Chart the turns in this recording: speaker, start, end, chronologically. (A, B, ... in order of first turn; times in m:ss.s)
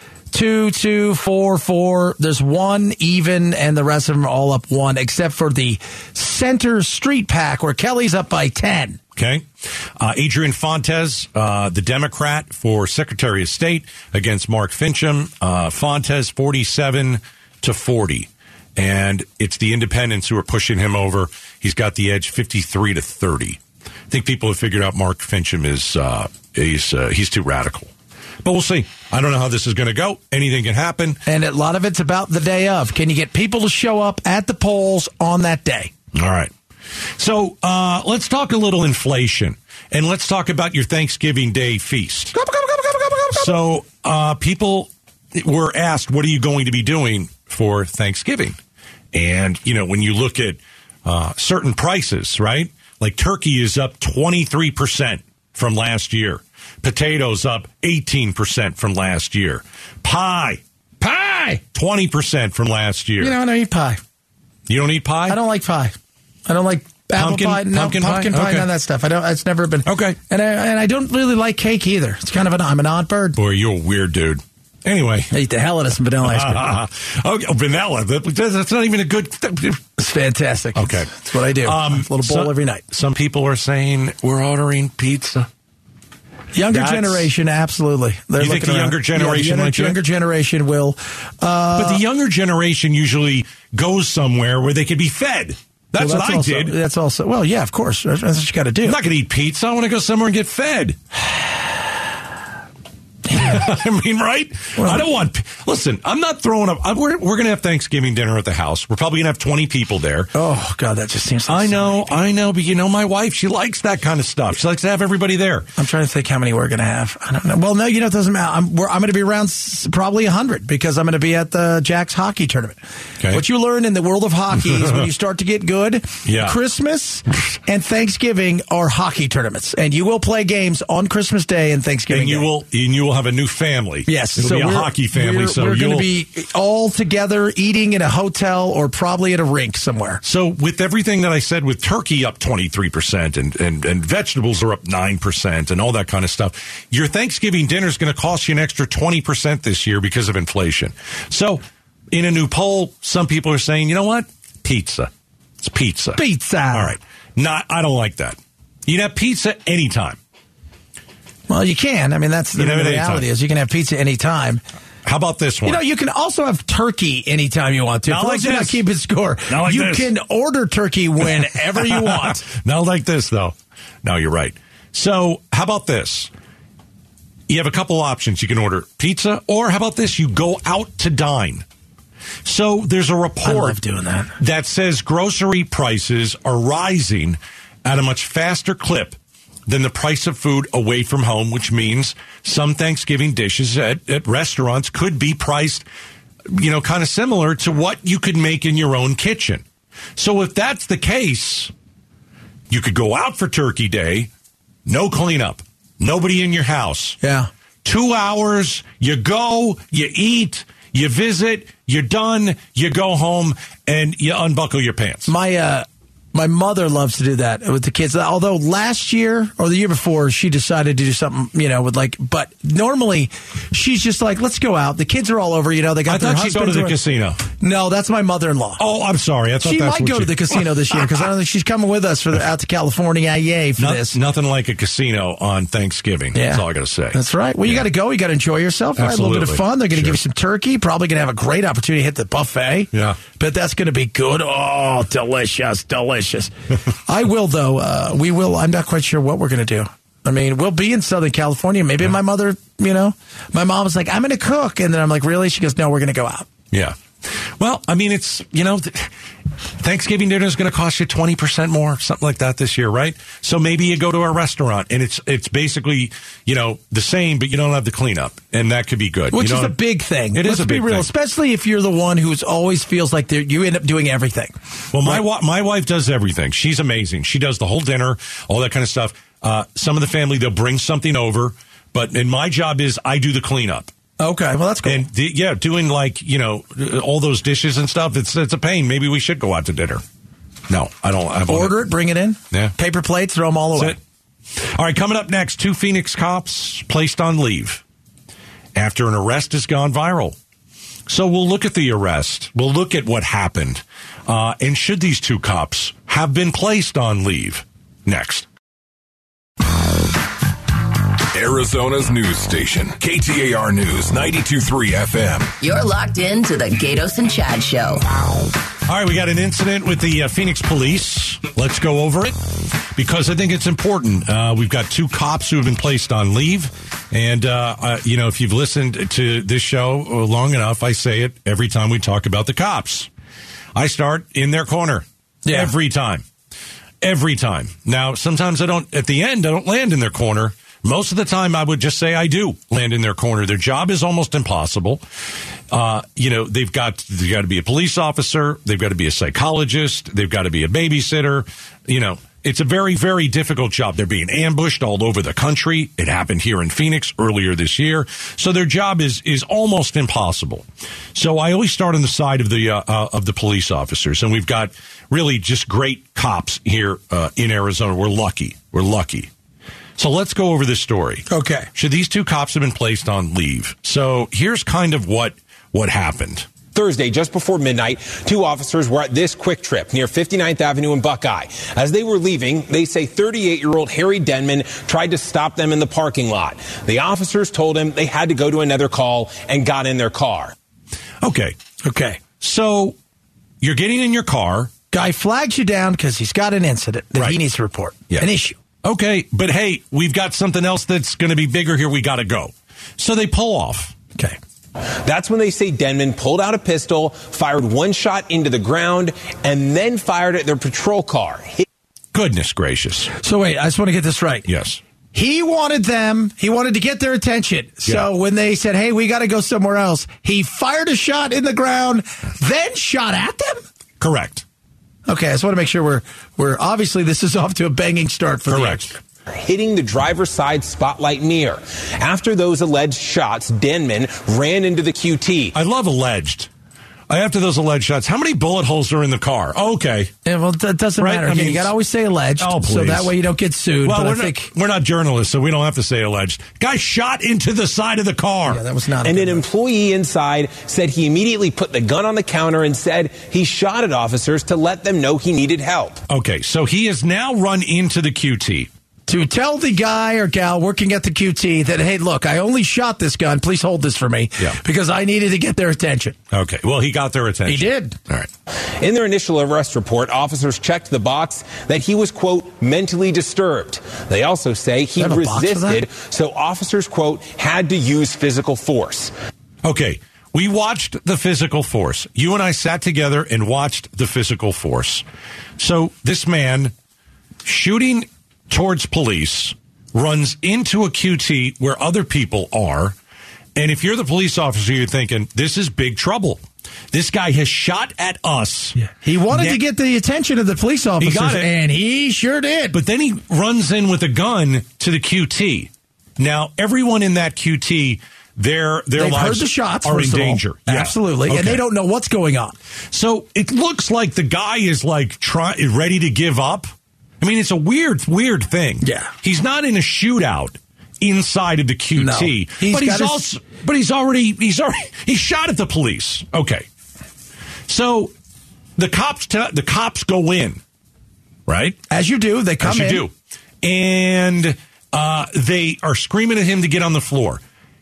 0:00.3-0:09.0 A
0:09.2-0:09.5 B
0:10.0-0:27.9 B
0:28.4-0:31.2 B
0:31.3-0:35.9 A
0:36.2-0:36.5 B
0:37.2-0:42.3 B
0:42.3-0:43.6 A
0:43.3-0:48.6 B
0:49.1-1:03.4 B
1:01.0-1:01.6 A
1:03.2-1:04.0 A
1:04.7-1:05.4 B
1:05.3-1:06.0 A
1:06.5-1:13.4 A
1:07.2-1:08.7 B
1:09.8-1:10.2 B
1:13.4-1:15.3 B
1:15.3-1:16.7 A
1:16.2-1:19.8 B
1:20.0-1:22.8 A
1:20.8-1:25.5 B
1:26.5-1:32.0 A
1:26.7-1:27.3 B
1:28.4-1:30.0 B
1:31.8-1:36.8 B
1:36.0-1:39.0 A
1:38.8-1:41.0 B
1:43.3-1:50.3 B
1:44.8-1:45.1 A
1:50.4-1:52.2 A
1:51.5-1:55.7 B
1:55.8-2:02.8 A
2:03.3-2:12.5 A
2:04.6-2:05.0 B
2:06.2-2:06.6 B
2:12.1-2:16.1 B
2:14.1-2:20.2 A
2:20.2-2:35.1 B
2:35.6-2:36.2 B
2:36.2-2:37.0 A
2:36.7-2:40.2 B
2:41.5-2:44.6 A
2:42.6-2:43.3 B
2:45.0-2:45.8 B
2:45.7-2:52.4 A
2:48.1-2:48.8 B
2:49.5-2:50.1 B
2:51.2-2:56.3 B
2:57.5-3:01.7 B
3:02.4-3:03.8 B
3:03.4-3:04.4 A
3:04.4-3:15.9 B
3:16.5-3:19.6 B
3:20.2-3:21.7 B
3:22.7-3:24.3 B
3:24.9-3:27.2 B
3:27.2-3:27.5 A
3:27.8-3:35.3 B
3:35.3-3:47.0 A
3:46.1-3:47.4 B
3:47.6-3:48.8 A
3:48.8-3:51.3 B
3:49.6-3:54.2 A
3:53.8-3:57.8 B
3:56.3-4:06.5 A
3:59.0-4:00.2 B
4:02.9-4:03.2 B
4:07.1-4:16.5 A
4:17.6-4:19.1 B
4:19.8-4:29.8 B
4:29.3-4:35.2 A
4:30.3-4:31.1 B
4:34.9-4:43.9 B
4:44.2-4:45.0 A
4:44.8-4:50.0 B
4:50.7-4:51.9 B
4:51.5-4:54.0 A
4:54.8-4:57.8 B
4:58.8-5:00.4 B
5:01.1-5:08.5 B
5:11.3-5:15.6 C
5:15.6-5:18.1 D
5:18.9-5:22.4 B
5:23.0-5:33.1 B
5:33.8-5:36.2 B
5:35.4-5:35.7 A
5:37.0-5:45.0 B
5:45.7-6:09.3 B
6:10.0-6:16.5 B
6:11.3-6:11.7 A
6:16.8-6:30.5 E
6:31.2-6:31.6 B
6:31.8-6:32.2 A
6:32.4-6:33.0 B
6:33.6-6:34.7 B
6:34.9-6:38.6 A
6:38.8-6:44.0 B
6:45.0-6:51.7 E
6:52.1-6:53.1 B
6:53.2-6:54.5 A
6:54.5-6:54.8 B
6:55.1-7:03.6 A
7:04.0-7:04.4 B
7:05.1-7:09.0 A
7:08.5-7:08.9 B
7:09.4-7:15.5 E
7:15.5-7:16.5 B
7:17.1-7:20.1 B
7:20.2-7:24.5 A
7:21.0-7:21.7 B
7:22.4-7:23.2 B
7:23.8-7:28.6 B
7:28.5-7:29.4 A
7:29.0-7:36.0 E
7:36.1-7:38.7 B
7:39.1-7:46.2 A
7:46.3-7:48.3 B
7:47.5-7:48.0 A
7:48.8-7:59.1 E
7:55.0-7:55.8 A
7:59.6-8:05.0 B
8:05.6-8:06.7 B
8:07.4-8:13.0 B
8:13.6-8:16.4 B
8:16.9-8:18.8 B
8:18.8-8:22.8 A
8:19.3-8:19.6 B
8:21.0-8:21.5 B
8:22.7-8:31.6 B
8:29.0-8:32.6 A
8:32.9-8:36.7 B
8:37.2-8:46.7 B
8:38.8-8:39.1 A
8:42.0-8:43.2 A
8:47.7-8:48.1 B
8:48.8-8:50.6 B
8:51.5-8:51.8 B
8:51.9-8:53.0 A
8:52.6-8:53.1 B
8:53.6-8:57.4 B